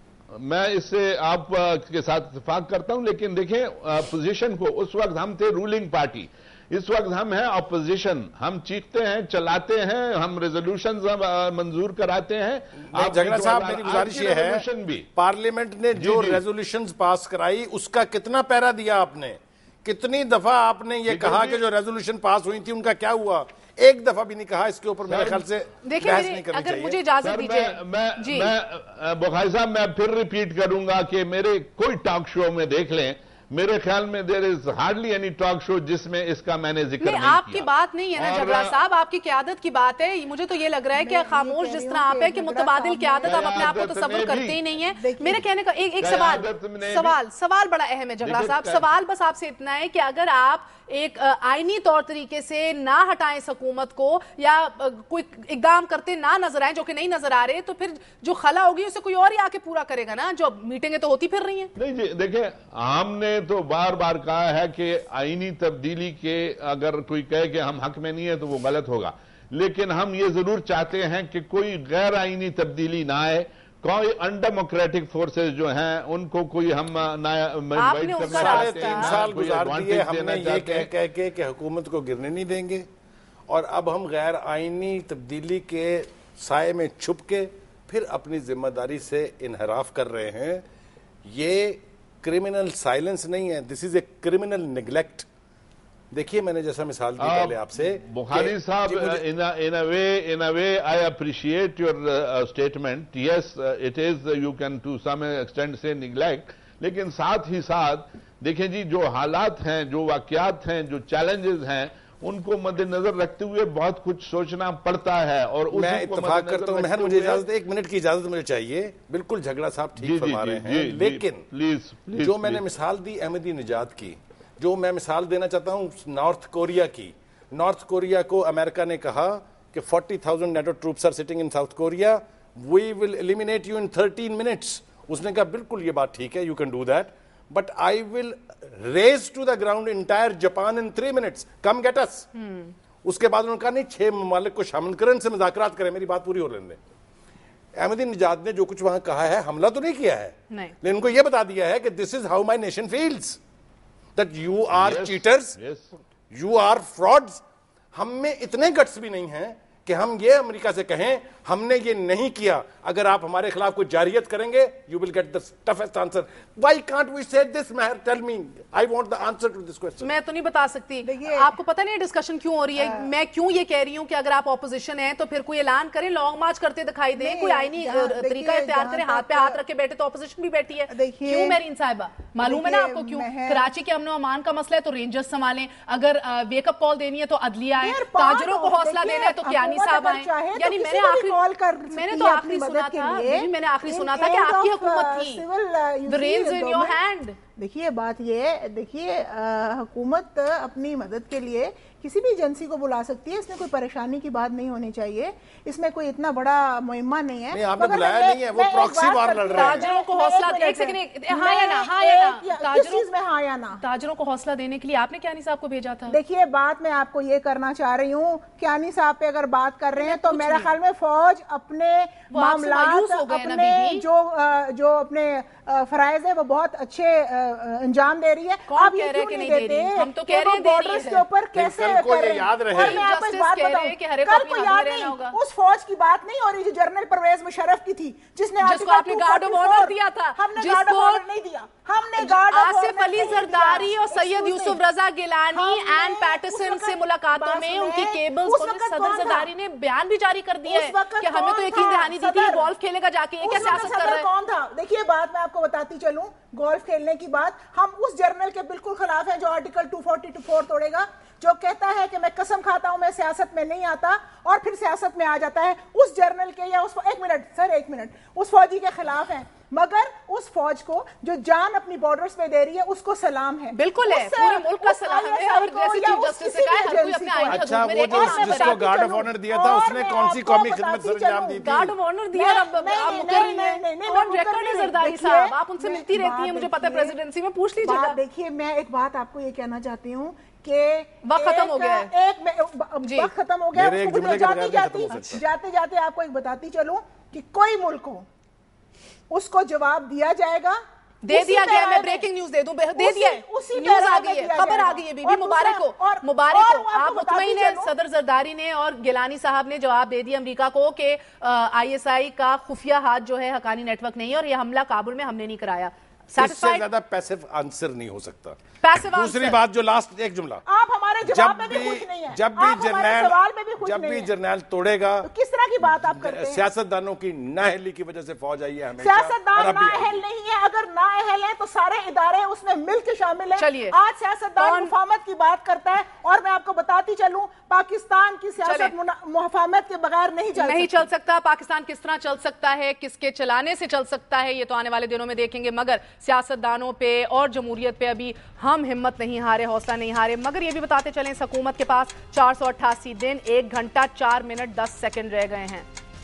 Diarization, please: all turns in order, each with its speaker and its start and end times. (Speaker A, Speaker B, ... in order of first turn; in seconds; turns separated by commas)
Speaker A: 0.3-15.1, Speaker B: 12.8-14.7, Speaker B: 15.2-27.0, Speaker A: 15.9-16.4, Speaker A: 21.1-21.6, Speaker A: 25.1-25.4, Speaker C: 25.8-28.5, Speaker A: 27.2-38.8, Speaker C: 37.0-61.7, Speaker D: 41.0-43.7, Speaker A: 43.2-44.6, Speaker D: 45.0-45.4, Speaker A: 46.0-47.2, Speaker A: 48.2-48.9, Speaker A: 61.8-80.9, Speaker C: 77.8-79.2, Speaker B: 78.3-82.9, Speaker B: 83.5-90.6, Speaker B: 91.2-95.3, Speaker B: 96.1-99.2, Speaker A: 97.2-117.5, Speaker B: 115.7-121.5, Speaker A: 120.0-122.6, Speaker B: 122.2-142.3, Speaker C: 142.4-142.7, Speaker B: 143.0-146.8, Speaker B: 147.8-153.4, Speaker B: 154.2-155.6, Speaker A: 154.7-155.9, Speaker B: 156.3-157.4, Speaker B: 157.9-170.1, Speaker C: 170.0-191.4, Speaker D: 171.0-171.5, Speaker D: 172.8-173.1, Speaker D: 177.2-179.6, Speaker D: 180.9-181.6, Speaker D: 182.4-183.7, Speaker D: 187.8-197.0, Speaker C: 191.9-195.4, Speaker C: 196.1-197.4, Speaker D: 197.6-213.8, Speaker B: 207.5-209.9, Speaker C: 209.5-213.1, Speaker C: 213.8-216.2, Speaker D: 216.1-244.8, Speaker C: 220.0-220.7, Speaker C: 222.3-224.1, Speaker C: 228.7-231.2, Speaker B: 231.6-233.0, Speaker C: 232.8-235.4, Speaker C: 238.6-241.2, Speaker C: 242.2-254.3, Speaker D: 245.5-249.5, Speaker D: 250.7-252.7, Speaker D: 253.4-287.1, Speaker C: 273.7-278.9, Speaker B: 277.5-281.9, Speaker C: 281.6-288.2, Speaker D: 287.8-298.3, Speaker C: 291.2-292.1, Speaker C: 293.0-293.3, Speaker B: 293.7-295.4, Speaker D: 299.3-302.3, Speaker C: 301.2-316.9, Speaker D: 303.0-307.9, Speaker B: 316.4-320.6, Speaker C: 318.8-319.6, Speaker D: 320.7-324.3, Speaker B: 321.2-325.3, Speaker D: 325.2-326.6, Speaker B: 325.8-330.2, Speaker D: 329.0-341.1, Speaker C: 333.6-334.0, Speaker C: 334.6-334.9, Speaker C: 338.6-338.9, Speaker C: 340.6-355.9